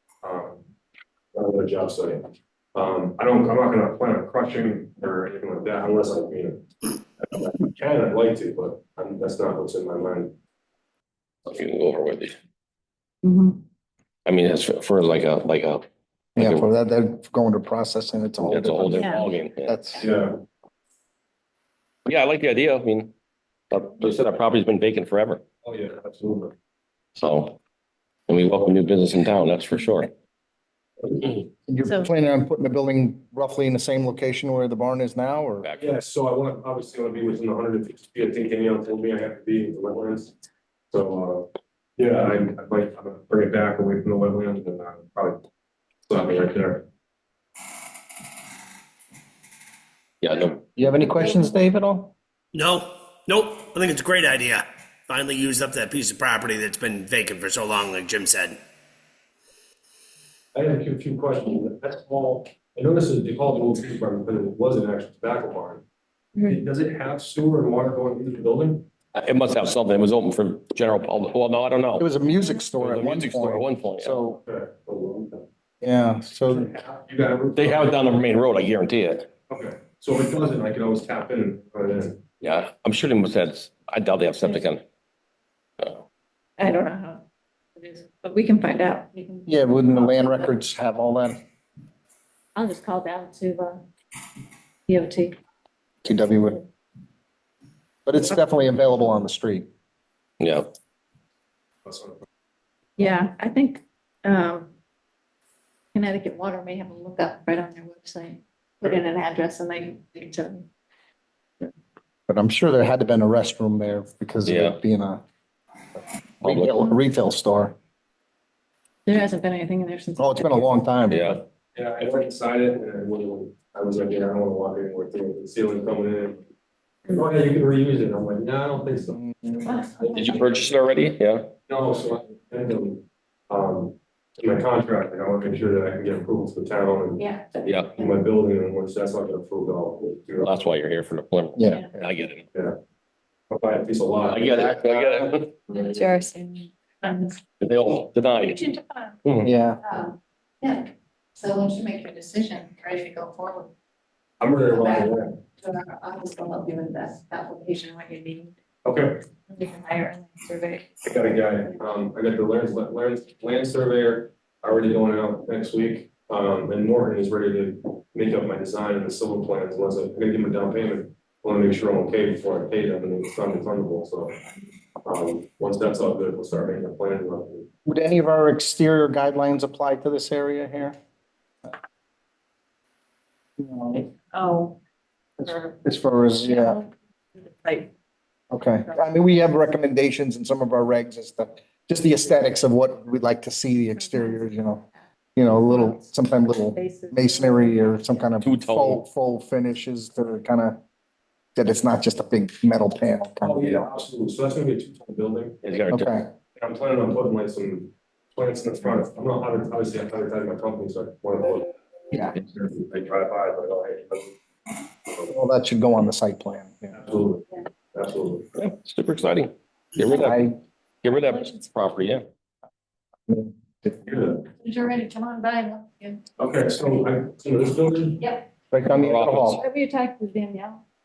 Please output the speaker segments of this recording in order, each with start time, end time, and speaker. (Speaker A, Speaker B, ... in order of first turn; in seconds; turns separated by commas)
Speaker A: 0.2-0.6, Speaker A: 1.3-6.7, Speaker A: 7.2-10.3, Speaker B: 11.4-12.3, Speaker C: 13.2-13.6, Speaker B: 14.2-15.8, Speaker D: 16.4-20.1, Speaker B: 16.4-16.7, Speaker B: 18.4-19.8, Speaker C: 19.0-19.2, Speaker A: 20.0-20.4, Speaker B: 22.1-23.1, Speaker B: 23.7-25.4, Speaker A: 25.6-26.5, Speaker B: 27.1-27.6, Speaker B: 28.3-30.1, Speaker D: 31.7-35.7, Speaker C: 31.8-32.1, Speaker B: 35.6-35.9, Speaker A: 35.8-40.3, Speaker A: 40.9-45.4, Speaker A: 46.1-46.8, Speaker B: 50.2-50.6, Speaker D: 50.8-52.1, Speaker E: 52.5-58.6, Speaker A: 60.5-65.8, Speaker A: 66.4-68.9, Speaker B: 69.1-72.1, Speaker D: 72.0-74.4, Speaker A: 72.8-73.2, Speaker B: 72.8-74.2, Speaker A: 74.3-75.5, Speaker D: 75.8-76.7, Speaker A: 76.5-78.0, Speaker B: 77.5-79.3, Speaker A: 79.5-82.2, Speaker B: 82.4-84.8, Speaker B: 85.8-86.0, Speaker C: 86.6-87.2, Speaker C: 87.8-90.5, Speaker D: 89.5-91.4, Speaker C: 92.5-93.8, Speaker C: 94.9-95.4, Speaker D: 96.0-96.6, Speaker D: 98.0-99.7, Speaker B: 100.4-100.7, Speaker A: 101.8-102.2, Speaker C: 103.0-104.7, Speaker C: 105.9-110.7, Speaker D: 112.3-115.2, Speaker B: 114.5-114.8, Speaker D: 116.4-117.7, Speaker B: 116.4-117.0, Speaker C: 119.0-120.8, Speaker D: 120.2-121.4, Speaker B: 121.1-121.4, Speaker A: 121.7-126.4, Speaker A: 127.1-130.6, Speaker D: 129.1-129.7, Speaker C: 129.7-130.3, Speaker B: 130.1-131.5, Speaker A: 131.7-137.3, Speaker C: 137.2-138.1, Speaker B: 137.6-137.9, Speaker A: 137.9-140.6, Speaker B: 140.4-142.4, Speaker D: 141.6-142.0, Speaker A: 143.5-146.0, Speaker B: 144.3-145.5, Speaker C: 145.7-147.4, Speaker B: 147.6-148.7, Speaker C: 148.4-149.2, Speaker D: 149.4-149.8, Speaker C: 149.8-153.7, Speaker A: 154.4-155.4, Speaker C: 154.7-158.6, Speaker A: 158.8-159.2, Speaker C: 159.5-161.1, Speaker A: 161.0-174.3, Speaker A: 175.0-177.7, Speaker D: 177.8-180.9, Speaker D: 183.6-184.1, Speaker C: 184.3-184.8, Speaker D: 185.4-186.8, Speaker C: 185.4-185.8, Speaker C: 186.4-187.9, Speaker D: 188.5-194.8, Speaker C: 193.9-194.6, Speaker D: 195.3-200.8, Speaker C: 195.5-198.3, Speaker B: 198.4-199.0, Speaker D: 201.5-203.9, Speaker A: 203.4-205.6, Speaker B: 205.6-206.1, Speaker D: 205.9-206.3, Speaker A: 206.5-211.7, Speaker A: 212.3-214.3, Speaker A: 215.1-215.3, Speaker D: 215.3-217.0, Speaker A: 216.9-218.5, Speaker B: 218.6-220.4, Speaker D: 220.1-220.6, Speaker B: 221.0-222.2, Speaker C: 221.1-221.5, Speaker A: 224.0-224.4, Speaker C: 224.6-226.2, Speaker A: 226.4-228.3, Speaker D: 228.7-229.6, Speaker B: 228.9-229.5, Speaker C: 229.5-230.8